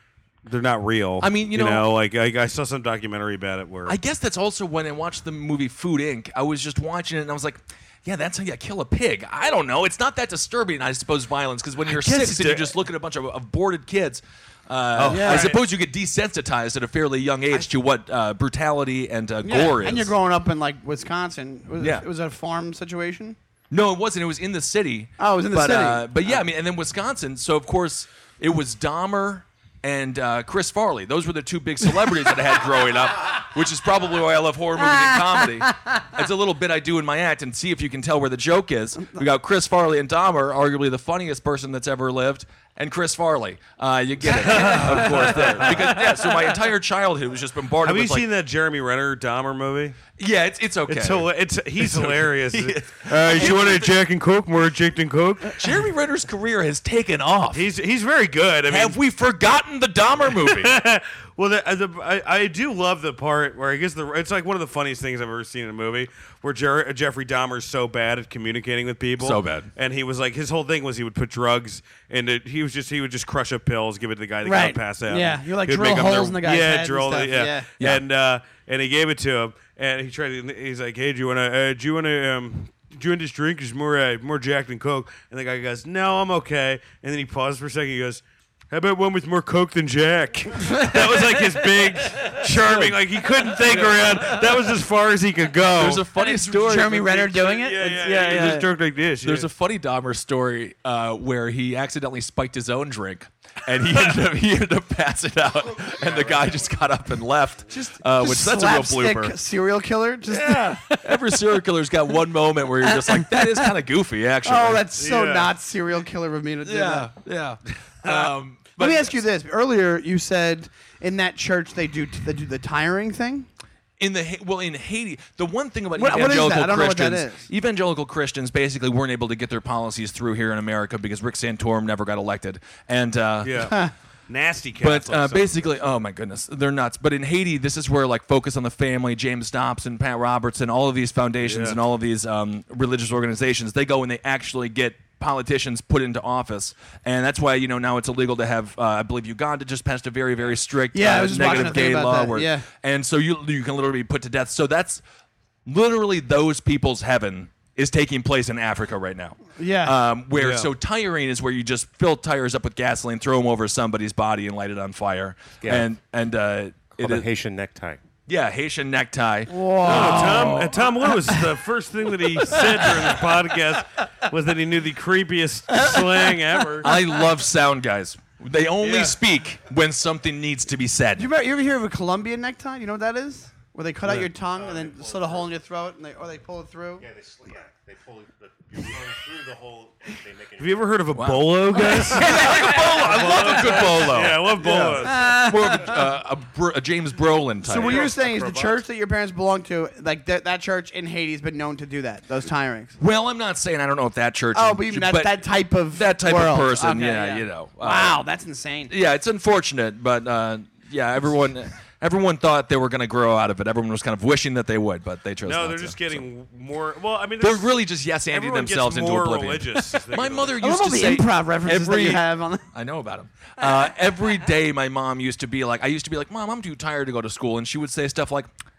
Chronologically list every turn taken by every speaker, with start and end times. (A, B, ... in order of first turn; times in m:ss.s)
0:00.4-0:04.0 A
0:01.2-0:01.9 B
0:03.9-0:20.1 B
0:11.9-0:12.7 A
0:14.9-0:15.6 A
0:15.1-0:15.6 C
0:19.4-0:23.4 C
0:21.8-0:22.1 B
0:23.7-0:48.3 B
0:25.2-0:26.2 C
0:44.3-0:46.1 A
0:47.8-0:50.0 A
0:50.2-0:54.0 B
0:50.9-0:55.6 A
0:55.5-0:57.7 B
0:57.5-0:59.0 A
0:58.7-1:00.7 B
1:00.3-1:36.1 A
1:09.2-1:09.7 B
1:14.4-1:17.7 C
1:32.6-1:32.9 B
1:33.6-1:34.4 B
1:35.8-1:37.2 B
1:36.2-1:38.7 C
1:36.9-1:39.5 A
1:38.3-1:38.6 B
1:39.2-1:49.4 B
1:47.7-1:51.2 C
1:50.3-1:54.9 B
1:52.8-1:53.7 C
1:54.4-1:57.1 C
1:55.0-1:55.5 A
1:56.6-1:59.2 B
1:58.8-2:03.5 C
2:04.0-2:13.7 B
2:06.0-2:07.5 C
2:13.4-2:13.8 A
2:14.3-2:15.6 A
2:14.8-2:35.0 B
2:21.4-2:21.8 A
2:30.9-2:32.6 C
2:35.6-2:47.3 B
2:39.6-2:40.0 C
2:40.4-2:40.7 A
2:45.6-2:45.9 D
2:47.0-2:48.0 D
2:48.3-2:50.8 B
2:49.5-2:51.4 C
2:49.8-2:56.9 A
2:52.5-2:52.9 C
2:56.8-3:01.3 B
2:58.8-2:59.2 A
3:01.2-3:07.0 C
3:04.5-3:05.5 D
3:07.0-3:11.0 D
3:10.6-3:15.4 A
3:11.1-3:18.1 B
3:12.0-3:12.8 C
3:12.3-3:13.4 D
3:14.6-3:16.0 C
3:17.6-3:23.0 C
3:17.8-3:18.2 A
3:18.0-3:18.8 D
3:23.0-3:28.2 B
3:24.5-3:28.9 C
3:28.9-3:36.2 B
3:35.4-3:37.8 A
3:37.4-3:48.5 B
3:38.3-3:40.6 A
3:40.6-3:42.7 C